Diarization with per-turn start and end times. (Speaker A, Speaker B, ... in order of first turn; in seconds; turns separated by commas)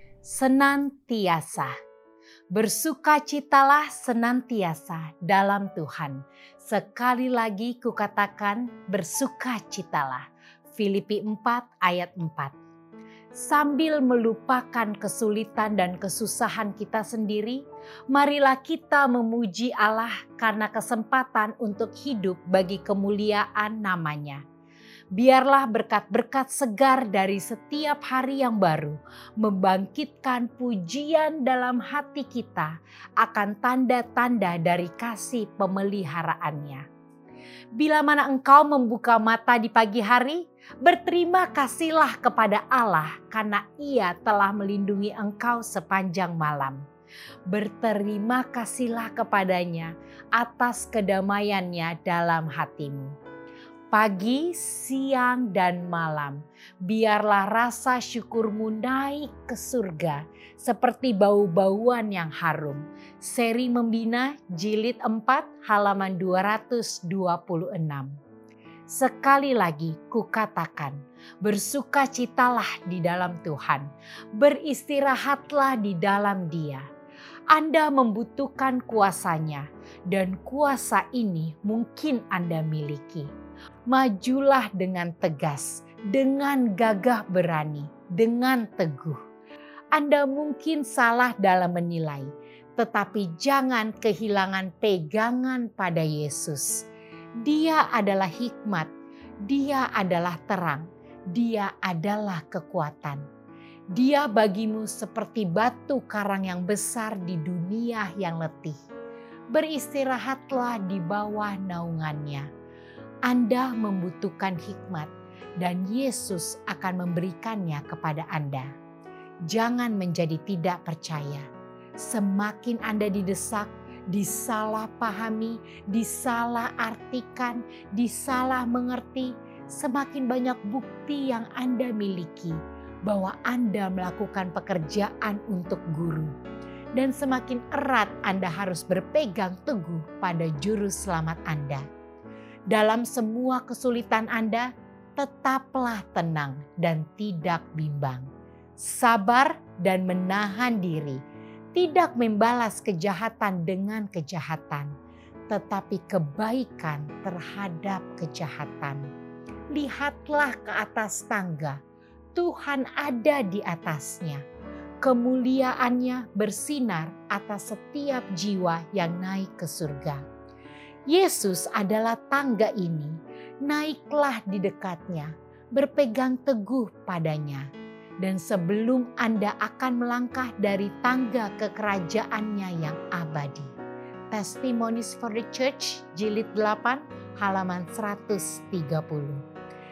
Speaker A: 0.2-1.7, Speaker A: 2.5-12.6, Speaker A: 13.3-24.4, Speaker A: 25.1-36.8, Speaker A: 37.8-46.8, Speaker A: 47.5-53.1, Speaker A: 53.9-68.1, Speaker A: 68.9-76.8, Speaker A: 77.5-83.3, Speaker A: 83.9-89.2, Speaker A: 89.9-96.9, Speaker A: 97.4-98.9, Speaker A: 99.4-103.2, Speaker A: 103.9-108.8, Speaker A: 109.5-112.5, Speaker A: 113.3-118.7, Speaker A: 119.5-121.5, Speaker A: 122.0-136.3, Speaker A: 137.0-141.8, Speaker A: 142.7-148.3, Speaker A: 148.8-151.2, Speaker A: 151.7-154.9, Speaker A: 155.5-159.1, Speaker A: 159.7-161.8, Speaker A: 162.3-164.4, Speaker A: 165.0-170.2, Speaker A: 171.1-177.7, Speaker A: 178.2-183.7, Speaker A: 184.3-189.4